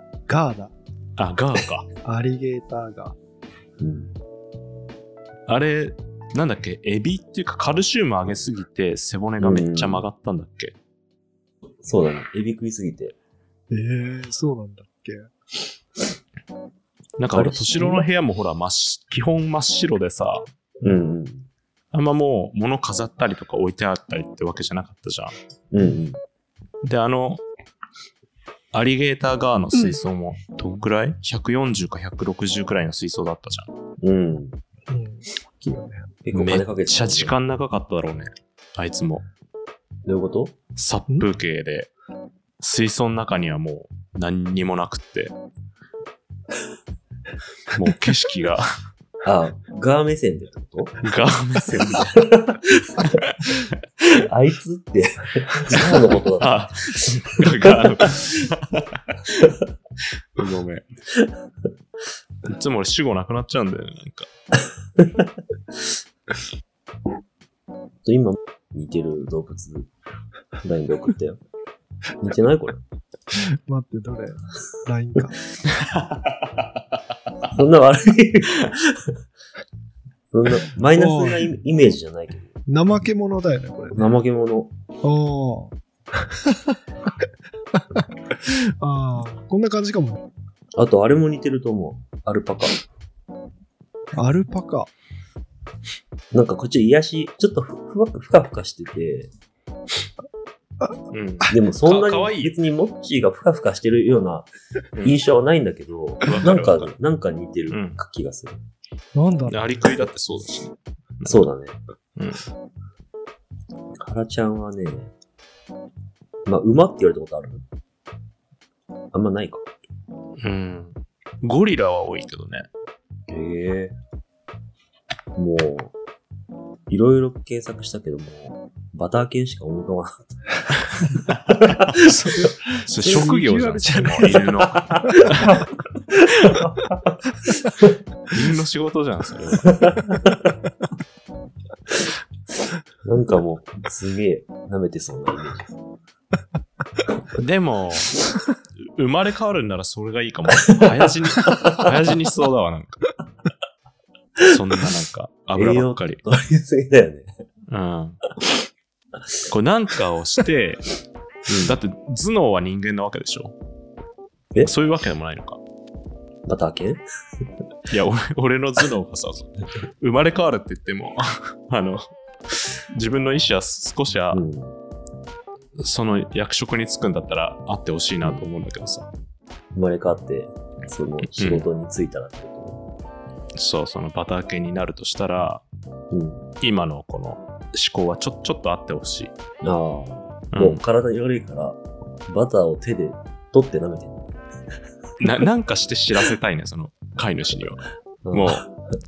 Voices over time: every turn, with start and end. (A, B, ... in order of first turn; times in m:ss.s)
0:00.3-0:00.7 A
0:01.2-0:01.9 B
0:02.0-0:03.2 A
0:03.8-0:04.1 C
0:05.5-0:10.8 B
0:09.4-0:10.0 C
0:11.8-0:13.1 C
0:13.7-0:15.3 A
0:17.2-0:20.5 B
0:17.3-0:18.0 C
0:20.8-0:21.5 C
0:21.9-0:25.3 B
0:25.7-0:26.2 C
0:26.8-0:27.4 B
0:28.7-0:33.7 B
0:34.0-0:34.6 C
0:34.9-0:36.0 A
0:36.2-0:37.3 C
0:36.3-0:39.2 B
0:40.0-0:40.6 C
0:40.8-0:41.9 B
0:42.6-0:45.3 B
0:47.7-0:48.7 B
0:49.2-0:51.0 C
0:51.0-0:53.6 B
0:52.2-0:52.9 C
0:54.2-0:58.0 C
0:55.9-0:59.5 B
1:00.4-1:00.9 B
1:02.4-1:04.3 B
1:08.0-1:09.9 C
1:10.6-1:11.4 C
1:12.2-1:12.8 C
1:13.7-1:15.4 A
1:15.7-1:16.6 B
1:17.5-1:19.0 C
1:20.3-1:22.5 C
1:20.9-1:21.4 A
1:22.7-1:24.1 A
1:23.9-1:24.7 C
1:25.0-1:26.8 A
1:28.0-1:30.2 A
1:30.8-1:32.8 C
1:34.1-1:34.9 A
1:36.3-1:39.3 C
1:41.1-1:42.5 B
1:41.5-1:44.5 C
1:45.0-1:48.6 C
1:46.3-1:46.9 B
1:47.7-1:48.0 B
1:49.1-1:49.7 A
1:49.4-1:51.4 B
1:51.2-1:51.8 C
1:52.2-1:52.5 B
1:54.0-1:55.1 C
1:56.4-1:57.6 C
1:59.1-1:59.6 C
2:00.4-2:02.7 B
2:03.3-2:03.9 C
2:05.4-2:05.9 C
2:06.9-2:10.4 C
2:11.7-2:12.3 C
2:11.9-2:15.1 A
2:12.8-2:15.6 B
2:14.7-2:15.1 C
2:16.5-2:16.8 C
2:18.3-2:19.8 B
2:19.6-2:20.4 C
2:23.0-2:25.8 C
2:27.4-2:28.1 B
2:29.0-2:33.1 B
2:31.5-2:31.9 C
2:34.4-2:36.2 B
2:35.5-2:37.3 C
2:37.7-2:38.2 B
2:39.5-2:40.9 B
2:41.5-2:41.8 C
2:41.6-2:43.5 B
2:44.6-2:45.6 B
2:46.4-2:47.0 C
2:47.9-2:54.4 B
2:54.3-2:54.8 C
2:55.8-2:59.1 B
2:58.2-2:58.5 C
2:59.7-3:02.9 C
3:01.3-3:01.6 B
3:03.5-3:05.6 B
3:06.1-3:06.5 C
3:06.6-3:09.3 B
3:09.6-3:14.2 C
3:10.5-3:10.8 B
3:15.2-3:18.6 B
3:18.2-3:18.7 C